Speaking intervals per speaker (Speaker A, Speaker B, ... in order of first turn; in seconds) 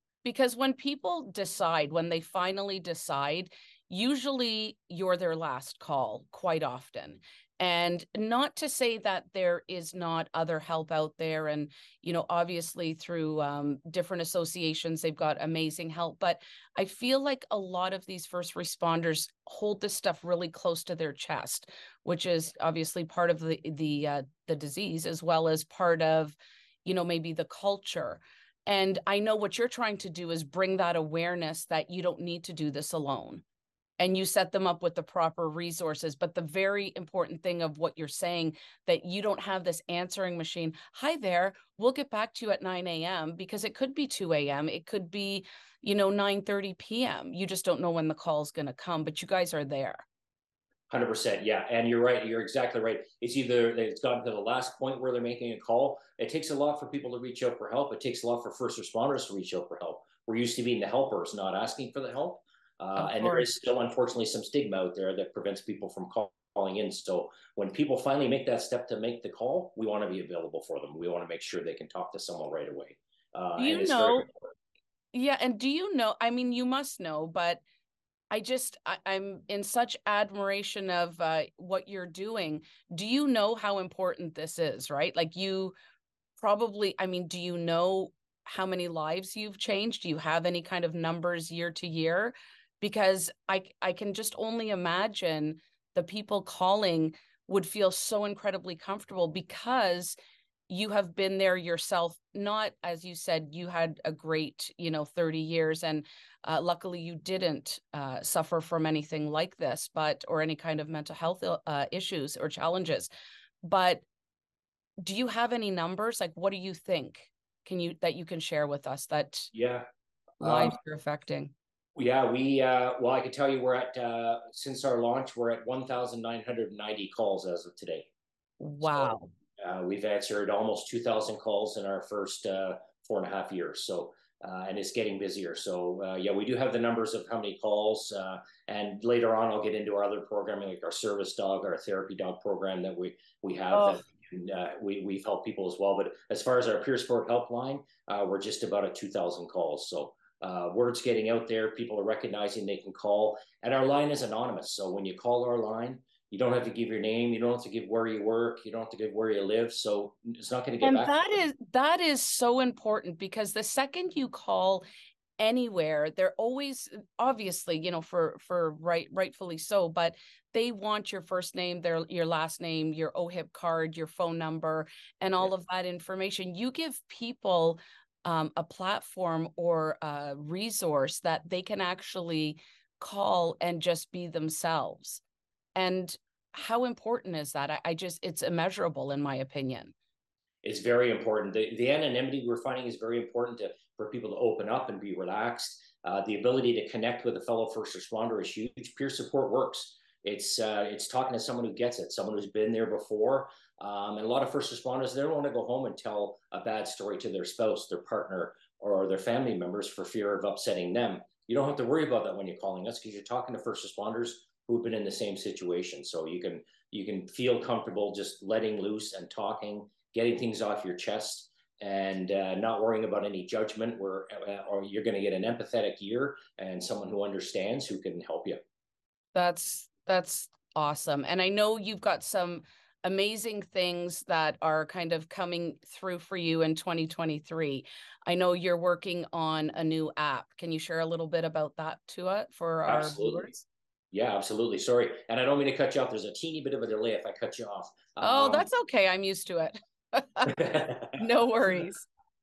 Speaker A: 0.2-33.4, 34.0-50.0, 63.0-63.5, 73.6-74.3, 75.1-77.6, 78.3-85.8, 86.4-100.2, 100.7-113.1, 113.6-114.0, 115.0-119.5, 120.4-121.5, 128.6-129.3, 143.7-144.0, 160.8-164.8, 165.4-185.2, 185.8-189.9, 229.3-243.6, 248.2-252.1
Speaker B: 50.9-74.5, 119.5-119.9, 120.4-120.8, 122.0-128.1, 128.8-161.2, 190.6-228.6, 242.9-243.5, 244.1-248.7, 250.5-251.2